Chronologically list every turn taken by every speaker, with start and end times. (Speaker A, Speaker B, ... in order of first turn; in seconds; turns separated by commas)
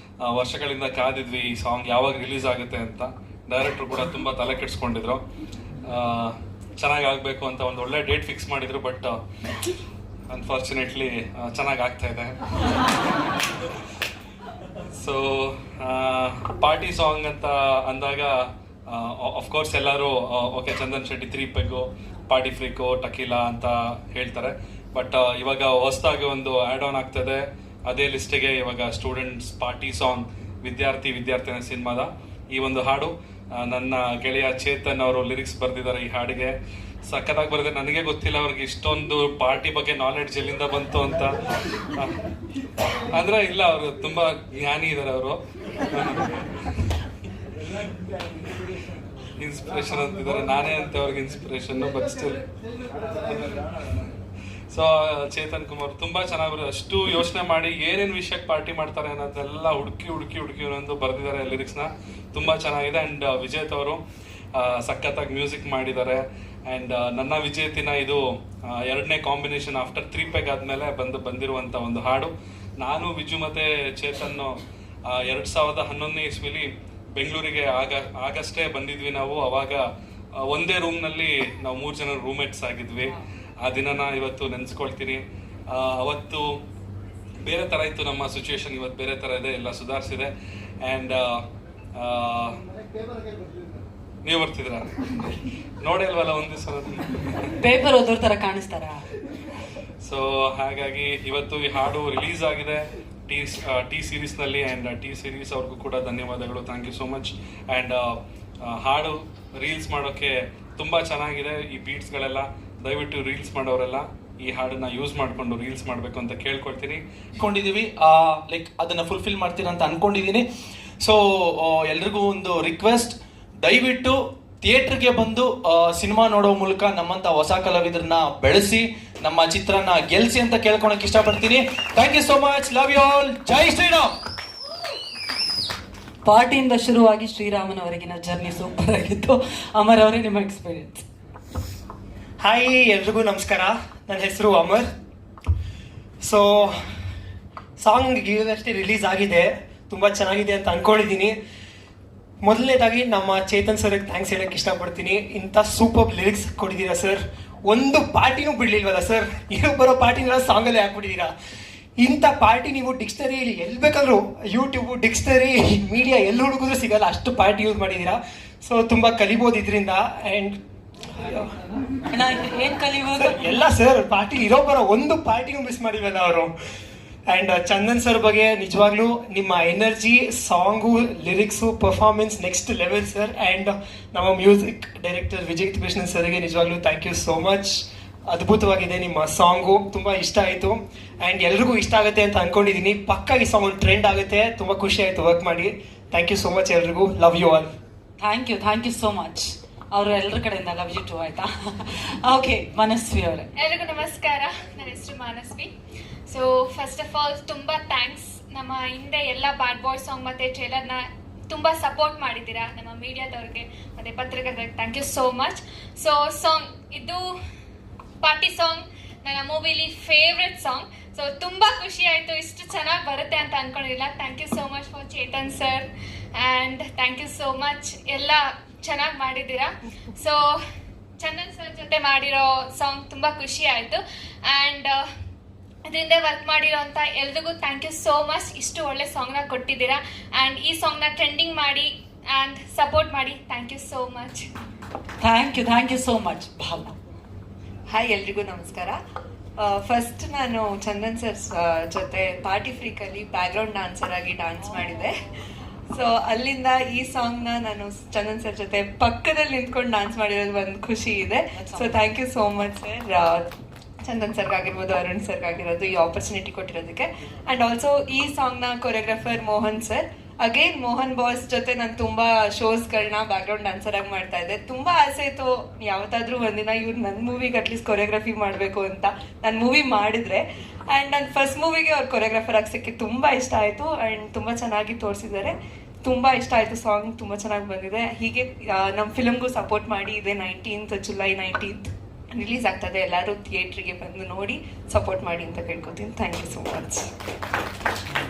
Speaker A: 0.2-5.2, Speaker A: 5.8-9.2, Speaker A: 10.3-12.4, Speaker A: 14.9-36.5, Speaker A: 37.0-42.1, Speaker A: 42.9-46.3, Speaker A: 49.4-52.4, Speaker A: 54.7-64.0, Speaker A: 64.5-86.5, Speaker A: 87.4-90.3, Speaker A: 90.8-91.4, Speaker A: 92.0-92.6, Speaker A: 94.2-95.0, Speaker A: 95.8-97.5, Speaker B: 97.6-99.0, Speaker A: 100.0-117.0, Speaker C: 117.4-120.4, Speaker C: 121.0-134.1, Speaker B: 136.2-141.0, Speaker D: 142.4-144.9, Speaker D: 146.2-146.8, Speaker D: 147.8-151.3, Speaker D: 152.4-161.3, Speaker D: 162.0-170.6, Speaker D: 171.2-171.5, Speaker B: 172.1-173.6, Speaker D: 173.2-176.5, Speaker D: 177.3-197.7, Speaker B: 198.2-203.5, Speaker E: 203.6-205.7, Speaker E: 206.3-217.3, Speaker E: 218.2-230.6, Speaker E: 231.2-235.1, Speaker E: 235.9-244.5, Speaker B: 245.2-246.9, Speaker F: 247.9-249.0, Speaker F: 249.6-255.2, Speaker F: 255.9-263.5, Speaker B: 261.5-262.0, Speaker F: 264.0-297.1